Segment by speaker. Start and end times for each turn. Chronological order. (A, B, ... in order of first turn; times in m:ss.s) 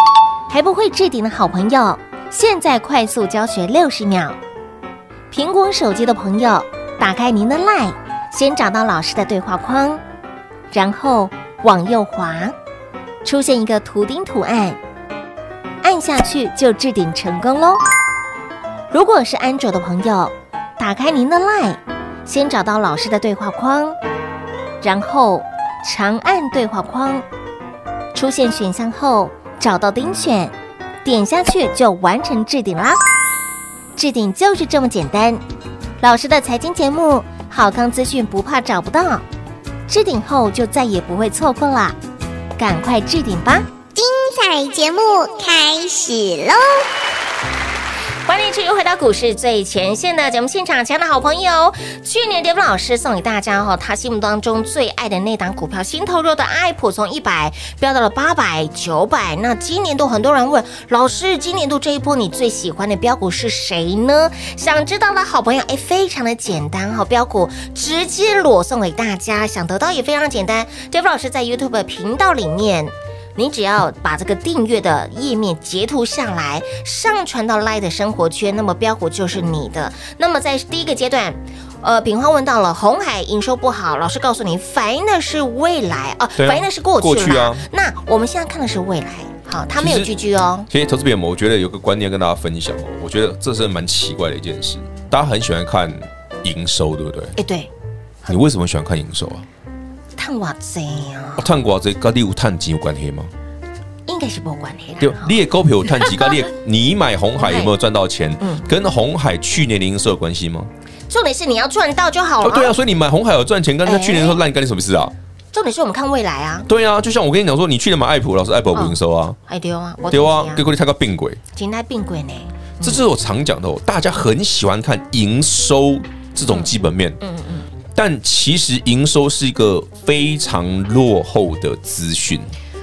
0:00.5-0:04.4 A
0:05.3-0:10.0 A
0:10.7-0:12.6 A
0:13.2-0:14.8 A
0:15.8-0:17.8 A
0:18.9-0:24.0 A
0:24.8-0:27.3 A
0:28.1-0:33.0 A
0:34.0-0:35.4 A
0:36.0-0:39.2 A
0:39.9-0:42.0 A
0:42.6-0:43.7 A
0:44.0-0:46.9 B
0:48.3-1:30.7 A
1:26.4-1:27.6 C
1:29.8-1:30.1 C
1:30.7-1:37.4 C
1:37.4-1:37.7 A
1:38.3-1:39.5 C
1:40.2-1:41.5 A
1:41.4-1:43.3 C
1:44.1-1:46.3 A
1:45.0-1:50.7 C
1:47.4-1:47.7 A
1:48.4-1:48.7 A
1:51.1-1:52.8 A
1:52.4-1:55.1 C
1:53.8-1:54.4 A
1:55.5-1:56.7 A
1:56.7-1:59.4 C
1:58.7-2:00.7 A
2:00.1-2:01.4 C
2:01.6-2:03.0 A
2:02.8-2:07.2 C
2:06.5-2:07.7 A
2:08.0-2:12.5 C